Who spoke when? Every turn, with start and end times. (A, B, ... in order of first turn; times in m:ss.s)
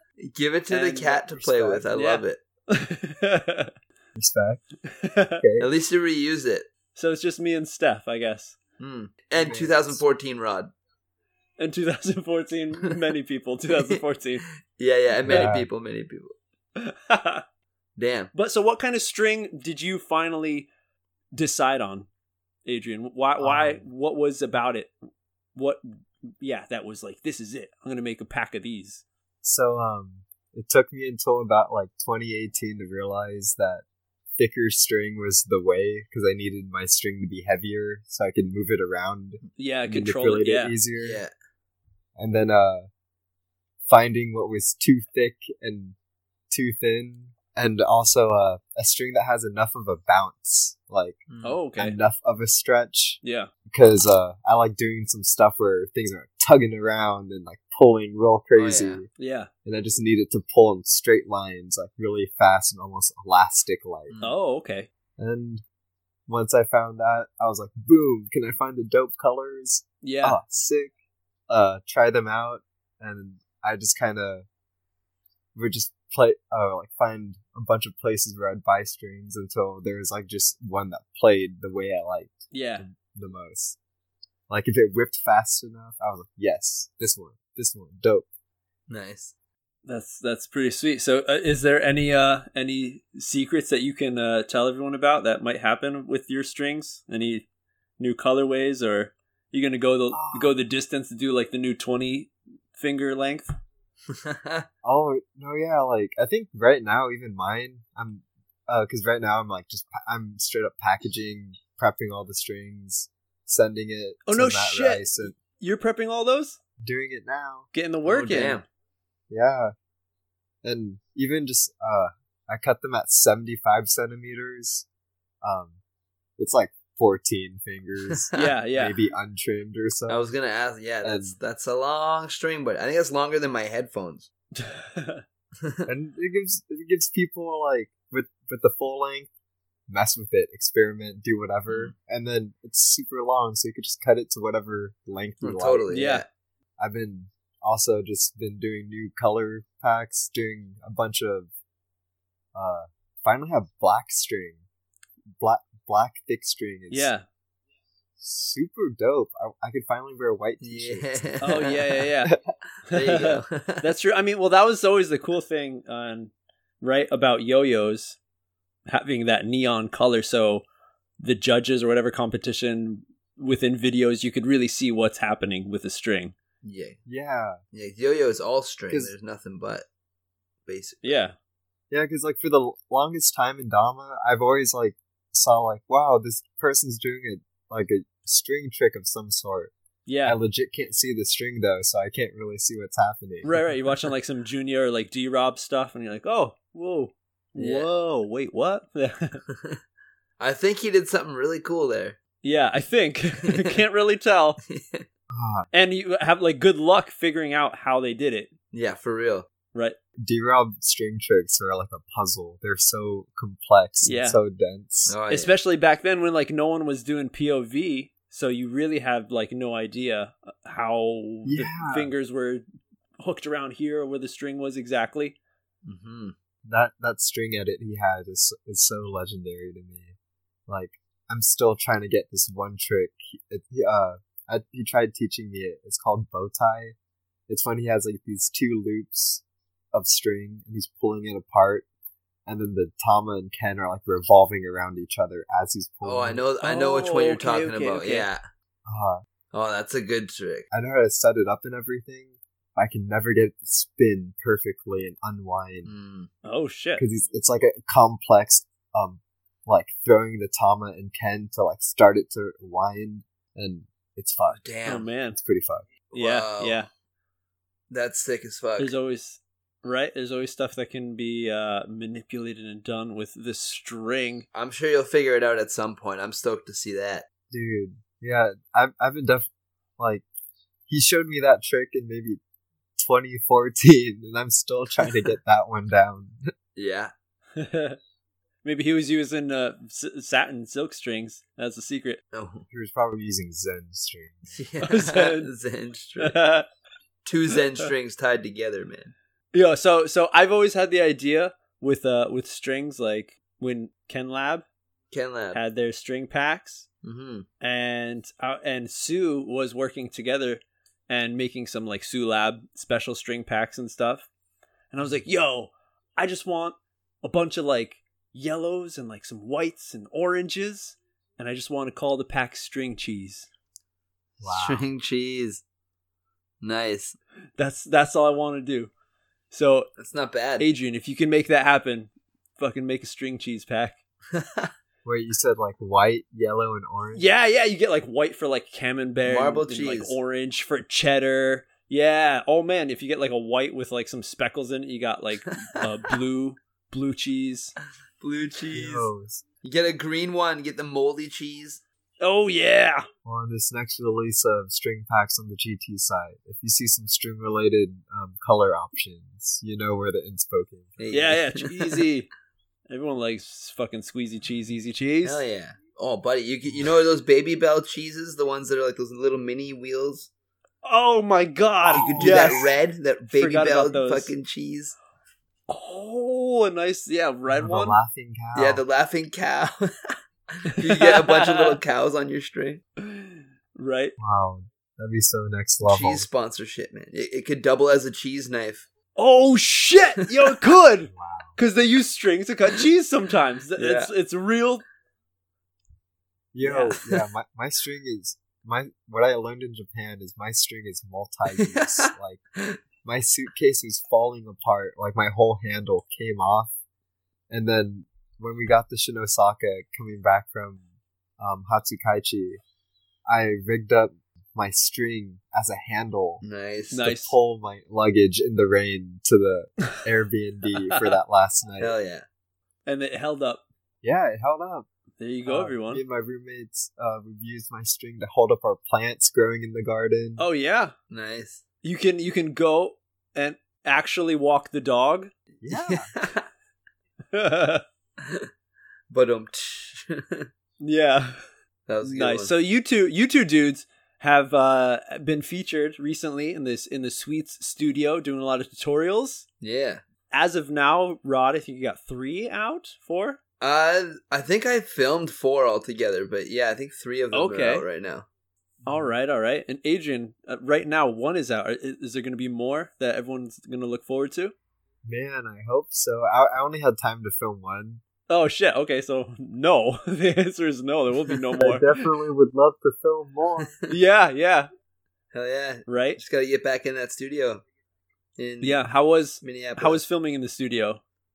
0:00.2-0:02.4 A
0:00.7-0:01.2 B
0:01.3-0:01.9 C
0:01.9-0:03.7 B
0:04.1-0:04.6 C
0:04.9-0:05.4 B
0:05.4-0:05.7 C
0:05.6-0:06.7 A
0:06.9-0:08.6 B
0:08.8-0:10.7 A
0:09.4-0:10.0 C
0:11.6-0:14.4 B
0:13.7-0:14.0 A
0:14.8-0:16.3 A
0:15.2-0:15.7 C
0:16.8-0:17.4 B
0:18.0-0:18.3 A
0:18.3-0:20.7 B
0:21.3-0:22.1 B
0:22.6-0:24.9 B
0:23.4-0:23.8 C
0:25.5-0:29.0 B
0:29.4-0:33.8 C
0:34.4-0:41.2 C
0:39.6-0:40.8 B
0:41.0-0:41.3 A
0:42.2-0:42.9 C
0:43.9-0:45.9 C
0:46.5-0:59.1 C
0:51.3-0:51.6 A
0:51.4-0:52.0 B
0:53.2-0:53.5 B
0:58.6-0:59.0 A
0:59.2-0:59.5 B
0:59.6-1:04.2 C
1:04.1-1:04.4 A
1:04.2-1:04.9 B
1:05.2-1:05.6 C
1:06.3-1:10.9 C
1:10.0-1:10.4 B
1:11.5-1:14.4 C
1:15.5-1:23.8 C
1:22.5-1:22.8 B
1:24.5-1:28.2 C
1:28.9-1:29.3 A
1:29.8-1:37.4 B
1:38.0-1:43.5 B
1:40.1-1:40.5 C
1:44.1-1:44.6 A
1:44.8-1:55.3 C
1:54.2-1:56.6 B
1:56.8-1:57.7 C
1:57.7-1:58.6 B
1:58.0-1:58.6 A
1:59.3-1:59.7 C
2:00.6-2:04.8 C
2:05.4-2:05.8 C
2:06.4-2:10.3 C
2:08.2-2:08.5 A
2:08.3-2:09.0 B
2:10.1-2:14.3 A
2:11.0-2:11.3 C
2:14.6-2:15.2 B
2:15.6-2:15.8 A
2:15.8-2:19.3 C
2:19.9-2:25.9 C
2:25.4-2:26.2 A
2:25.9-2:26.2 B
2:26.8-2:31.5 C
2:32.5-2:34.6 C
2:35.4-2:37.1 C
2:36.9-2:37.2 B
2:38.2-2:41.6 C
2:40.6-2:42.0 A
2:41.4-2:42.4 B
2:42.2-2:42.5 C
2:42.9-2:48.2 B
2:42.9-2:43.9 A
2:48.9-2:50.6 B
2:51.2-2:56.3 B
2:56.6-2:57.0 A
2:57.0-2:57.6 C
2:57.7-2:59.8 A
3:00.6-3:01.2 A
3:01.0-3:01.3 B
3:01.9-3:09.7 C
3:10.1-3:10.4 B
3:10.2-3:13.6 C
3:13.4-3:19.4 B
3:17.6-3:17.9 A
3:19.5-3:19.8 A
3:20.4-3:22.2 A
3:22.4-3:24.6 B
3:23.4-3:23.8 A
3:24.7-3:25.0 A
3:25.3-3:25.7 C
3:25.7-3:28.5 B
3:28.7-3:29.5 A
3:30.2-3:35.2 C
3:34.0-3:34.4 B
3:35.1-3:35.5 A
3:35.3-3:42.6 B
3:41.4-3:42.1 C
3:43.2-3:45.4 B
3:45.8-3:46.3 A
3:46.6-3:50.1 C
3:50.7-3:56.9 C
3:57.5-4:01.8 C
4:02.4-4:06.4 C
4:06.0-4:08.4 A
4:06.6-4:08.3 B
4:08.8-4:09.2 C
4:09.5-4:10.7 A
4:10.7-4:15.9 C
4:15.8-4:16.3 A
4:16.4-4:17.0 B
4:17.0-4:24.6 C
4:24.5-4:25.1 A
4:24.8-4:25.4 B
4:25.3-4:25.9 C
4:26.1-4:26.8 A
4:26.1-4:26.9 B
4:27.9-4:28.9 A
4:28.8-4:34.4 B
4:34.5-4:37.3 A
4:37.5-4:39.5 C
4:40.0-4:40.2 C
4:40.9-4:42.4 C
4:43.0-4:46.4 C
4:46.8-4:47.1 A
4:47.6-4:48.0 B
4:48.6-4:52.2 B
4:52.3-4:52.6 A
4:52.7-4:54.6 C
4:54.5-4:56.4 A
4:54.8-4:55.5 B
4:56.2-4:56.6 B
4:57.2-4:59.1 A
4:59.5-5:04.6 B
5:05.1-5:05.6 A
5:05.5-5:06.9 B
5:07.0-5:07.5 A
5:07.6-5:14.3 B
5:14.9-5:23.5 B
5:24.4-5:24.8 C
5:24.4-5:25.6 A
5:26.6-5:27.2 A
5:27.6-5:28.9 B
5:29.5-5:29.9 B
5:30.0-5:30.6 A
5:30.6-5:34.0 B
5:34.3-5:34.7 A
5:35.0-5:37.2 C
5:37.1-5:47.7 B
5:39.2-5:40.2 A
5:45.5-5:45.8 A
5:48.2-5:49.1 A
5:48.7-5:49.4 C
5:49.6-5:51.8 A
5:52.2-5:53.0 B
5:53.2-6:00.9 C
6:01.0-6:02.0 A
6:01.1-6:02.3 B
6:02.9-6:05.4 B
6:05.2-6:10.3 A
6:10.8-6:12.7 B
6:11.9-6:12.5 C
6:11.9-6:15.0 A
6:13.3-6:14.3 B
6:15.7-6:18.0 B
6:17.5-6:18.8 C
6:18.5-6:22.8 A
6:20.7-6:21.8 B
6:23.0-6:24.1 B
6:24.2-6:26.3 C
6:25.8-6:28.9 A
6:29.2-6:34.8 B
6:31.1-6:31.6 C
6:33.8-6:34.1 A
6:36.5-6:42.4 C
6:36.6-6:37.0 B
6:41.6-6:42.8 A
6:43.0-6:46.7 C
6:47.5-6:50.8 C
6:51.4-6:52.6 C
6:53.3-6:56.4 C
6:56.4-6:57.0 A
6:56.9-6:57.4 B
6:57.0-7:01.9 C
7:00.9-7:01.2 B
7:01.8-7:02.2 A
7:02.8-7:03.6 B
7:04.0-7:04.9 C
7:05.2-7:06.0 B
7:05.4-7:10.4 C
7:10.4-7:10.9 B
7:11.1-7:11.6 A
7:11.8-7:15.3 B
7:15.6-7:16.1 C
7:15.7-7:16.4 A
7:17.3-7:17.8 B
7:18.2-7:18.5 A
7:19.1-7:20.5 A
7:20.8-7:21.4 B
7:21.9-7:22.5 A
7:22.0-7:29.4 B
7:29.6-7:30.0 A
7:30.3-7:33.4 B
7:33.6-7:38.2 A
7:37.3-7:37.8 B
7:38.8-7:39.1 C
7:38.8-7:44.5 B
7:45.0-7:48.0 C
7:48.3-7:51.9 B
7:51.6-7:53.7 C
7:53.9-7:54.7 B
7:55.3-7:57.6 A
7:55.9-7:56.2 B
7:58.4-7:58.8 A
7:58.6-8:01.0 B
7:59.4-8:00.0 A